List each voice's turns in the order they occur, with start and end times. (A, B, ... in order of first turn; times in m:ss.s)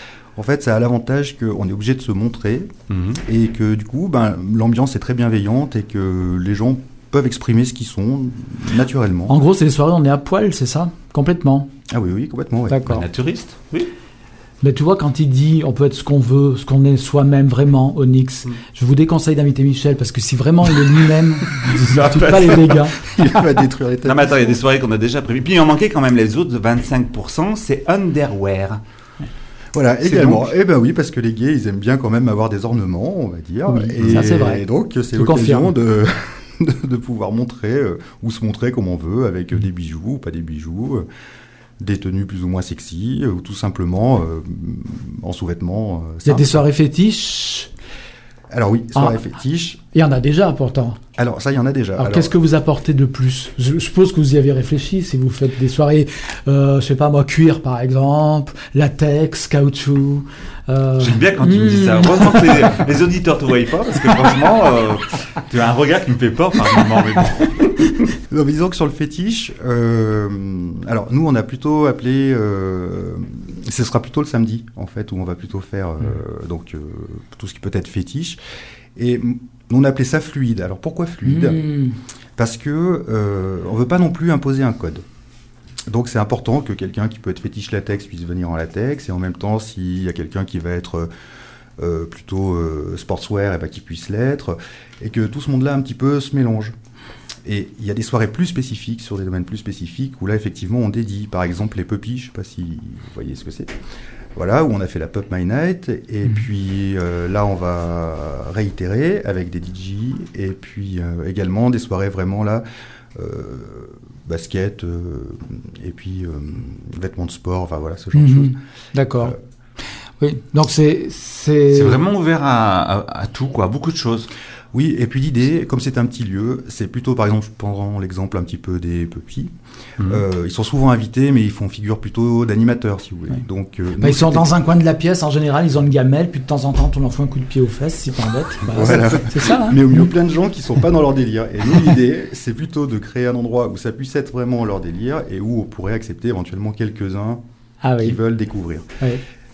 0:00.4-0:02.7 A
0:02.9-0:03.2 B
0:03.2-0:09.4 A
0:09.3-0:11.7 C
0:11.9-0:12.9 A
0:12.7-0:13.0 C
0:12.8-0:13.9 B
0:14.6-0:23.0 C
0:21.6-0:22.8 B
0:23.1-0:24.6 A
0:24.0-0:28.8 B
0:29.7-0:41.0 A
0:30.0-0:30.5 B
0:33.7-0:35.7 C
0:41.8-0:46.6 A
0:46.2-0:47.7 C
0:48.5-0:49.8 A
0:49.9-0:51.0 C
0:51.2-0:52.3 A
0:52.0-1:02.7 C
1:01.0-1:07.7 B
1:08.3-1:18.4 A
1:18.9-1:21.6 A
1:21.2-1:21.9 C
1:22.4-1:25.0 A
1:25.9-1:31.1 A
1:31.8-1:36.7 A
1:37.4-1:43.7 A
1:44.3-1:52.6 A
1:53.1-1:58.6 A
1:58.1-1:59.3 C
2:00.2-2:02.0 C
2:01.7-2:04.3 B
2:04.7-2:14.5 A
2:14.0-2:20.0 C
2:18.7-2:27.4 A
2:27.8-2:28.2 C
2:28.0-2:28.9 A